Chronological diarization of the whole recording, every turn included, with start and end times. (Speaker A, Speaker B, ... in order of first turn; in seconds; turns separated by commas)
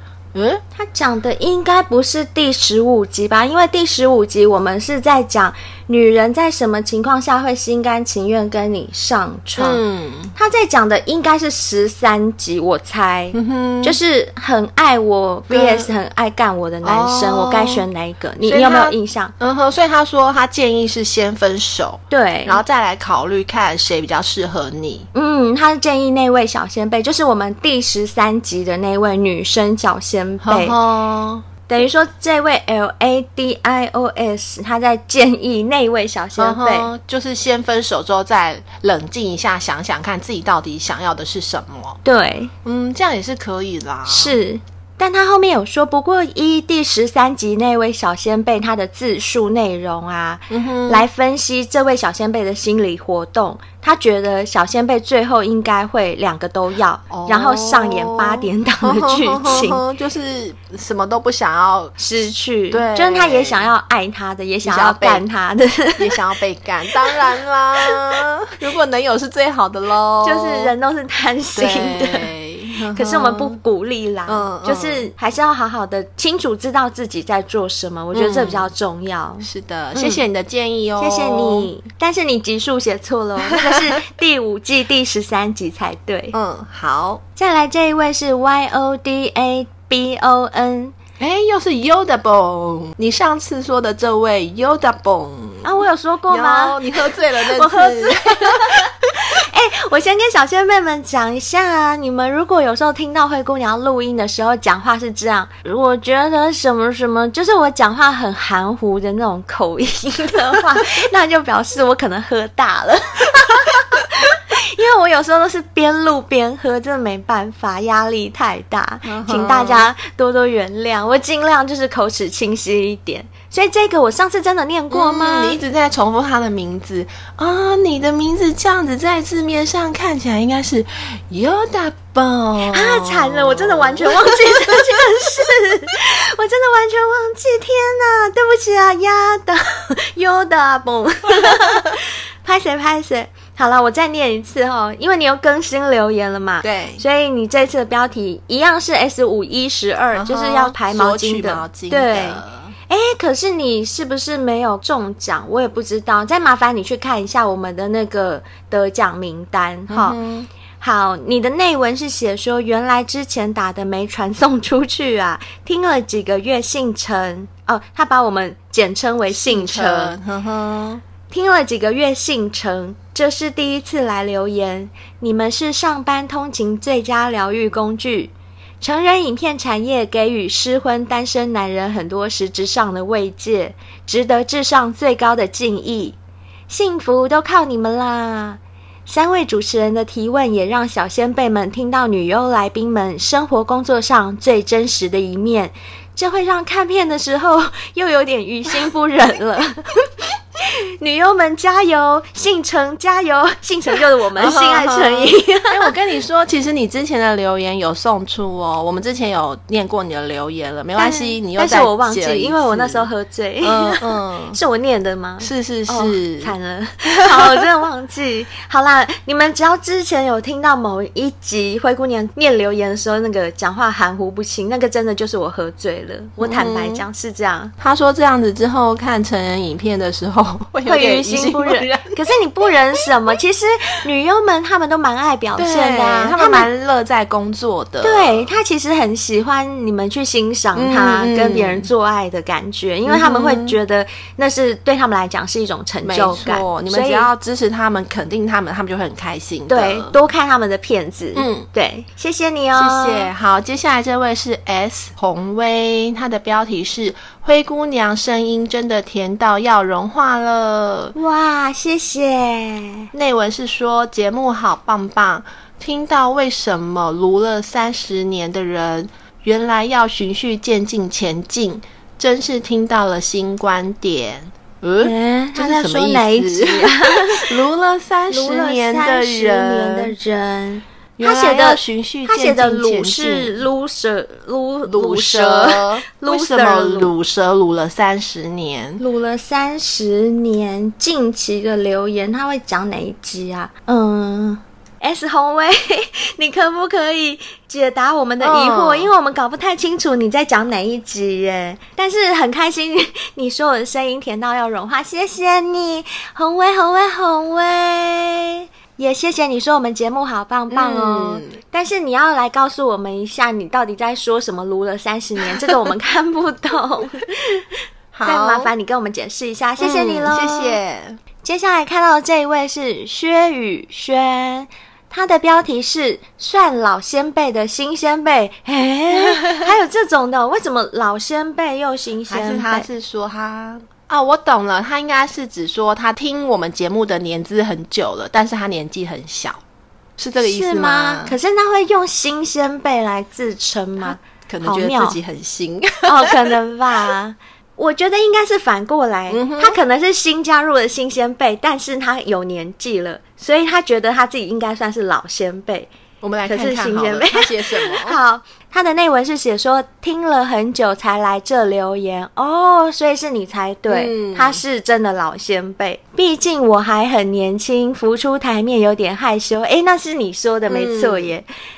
Speaker A: 0.3-0.6, Speaker B: 0.7-9.8, Speaker A: 9.6-10.3, Speaker B: 10.3-19.3, Speaker A: 13.3-14.0, Speaker A: 15.5-15.9, Speaker A: 16.8-17.9, Speaker A: 18.4-25.1, Speaker B: 22.1-22.6, Speaker B: 25.1-30.8, Speaker A: 30.4-31.4, Speaker B: 31.7-36.9, Speaker A: 36.4-42.0, Speaker B: 42.0-42.5, Speaker A: 42.6-44.4, Speaker B: 44.1-59.8, Speaker A: 50.5-51.1, Speaker A: 57.1-62.0, Speaker B: 62.0-66.2, Speaker A: 62.7-63.7, Speaker A: 64.6-65.2, Speaker A: 66.0-70.7, Speaker B: 70.2-72.3, Speaker A: 71.5-73.6, Speaker B: 72.9-80.2, Speaker A: 74.3-75.1, Speaker A: 78.1-78.7, Speaker A: 79.4-81.7, Speaker B: 81.0-86.3, Speaker A: 83.4-83.8, Speaker A: 86.3-87.2, Speaker B: 87.3-90.9, Speaker A: 91.2-98.9, Speaker B: 95.6-125.6, Speaker A: 119.0-119.9, Speaker A: 124.9-135.0, Speaker B: 132.7-160.2, Speaker A: 141.4-141.7, Speaker A: 146.6-147.0, Speaker A: 150.1-152.7, Speaker A: 159.9-160.5, Speaker B: 160.8-170.2, Speaker A: 169.3-171.0, Speaker B: 171.3-186.2, Speaker B: 186.7-200.0, Speaker B: 200.6-205.9, Speaker A: 204.3-213.1, Speaker B: 211.0-227.7, Speaker A: 213.6-214.6, Speaker A: 215.4-216.5, Speaker A: 217.1-217.6, Speaker A: 226.4-227.0, Speaker A: 227.8-232.2, Speaker B: 230.8-236.7, Speaker A: 235.6-238.6, Speaker B: 238.0-247.3, Speaker A: 240.7-241.9, Speaker A: 243.1-243.8, Speaker A: 246.0-250.2, Speaker B: 249.7-253.3, Speaker A: 251.3-251.7, Speaker A: 252.7-261.1, Speaker B: 261.1-263.1, Speaker A: 263.1-280.1, Speaker B: 275.0-277.5, Speaker B: 278.3-287.1, Speaker A: 281.2-283.6, Speaker A: 284.9-289.0, Speaker B: 289.0-317.6, Speaker A: 298.4-299.1, Speaker A: 310.7-311.6, Speaker A: 315.5-315.8, Speaker A: 318.1-318.7, Speaker B: 318.2-320.8, Speaker A: 319.8-321.2, Speaker B: 321.4-332.9, Speaker A: 329.1-329.7, Speaker A: 332.3-339.6, Speaker A: 340.2-341.4, Speaker B: 340.4-345.2, Speaker A: 344.0-346.6, Speaker B: 346.1-355.9, Speaker A: 349.3-349.8, Speaker A: 356.2-358.2, Speaker B: 356.5-371.5, Speaker A: 363.9-364.6, Speaker A: 370.7-371.3